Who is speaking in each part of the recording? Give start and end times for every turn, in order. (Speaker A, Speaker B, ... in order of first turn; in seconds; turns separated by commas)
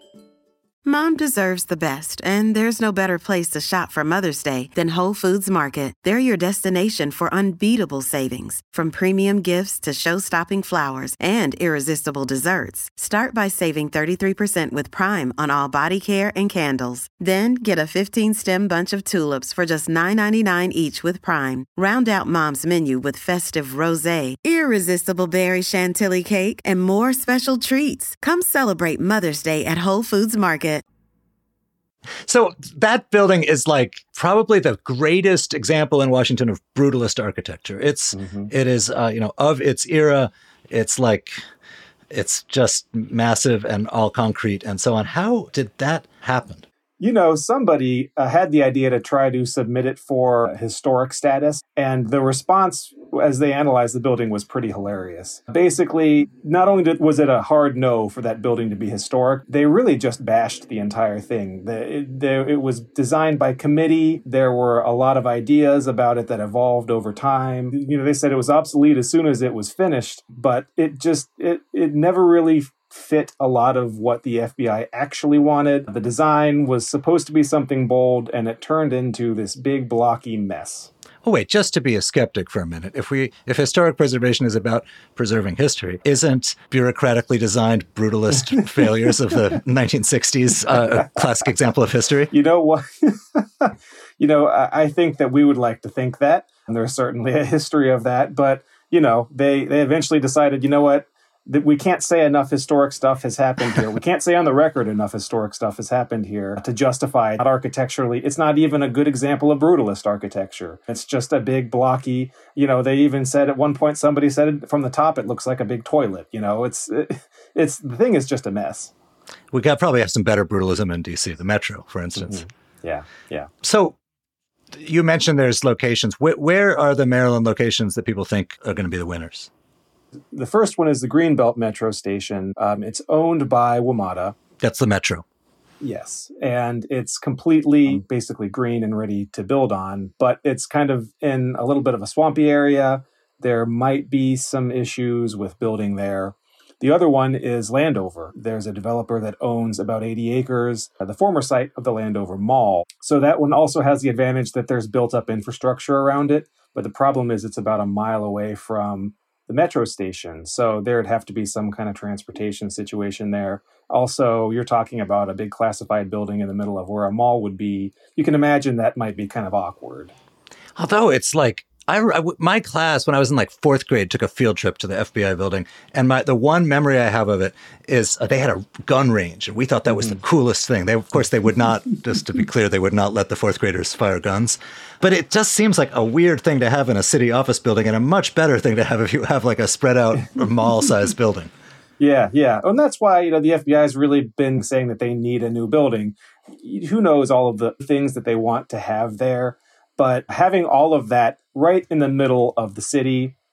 Speaker A: 0.8-30.8, Speaker B: 32.2-41.3, Speaker C: 38.1-38.5, Speaker B: 42.1-46.6, Speaker C: 47.0-80.9, Speaker B: 81.2-92.3, Speaker C: 92.3-118.9, Speaker B: 119.5-122.5, Speaker C: 122.2-123.5, Speaker B: 123.6-124.0, Speaker B: 124.8-129.5, Speaker C: 130.3-134.3, Speaker B: 134.6-135.2, Speaker C: 135.8-170.1, Speaker B: 170.8-191.5, Speaker C: 192.0-203.3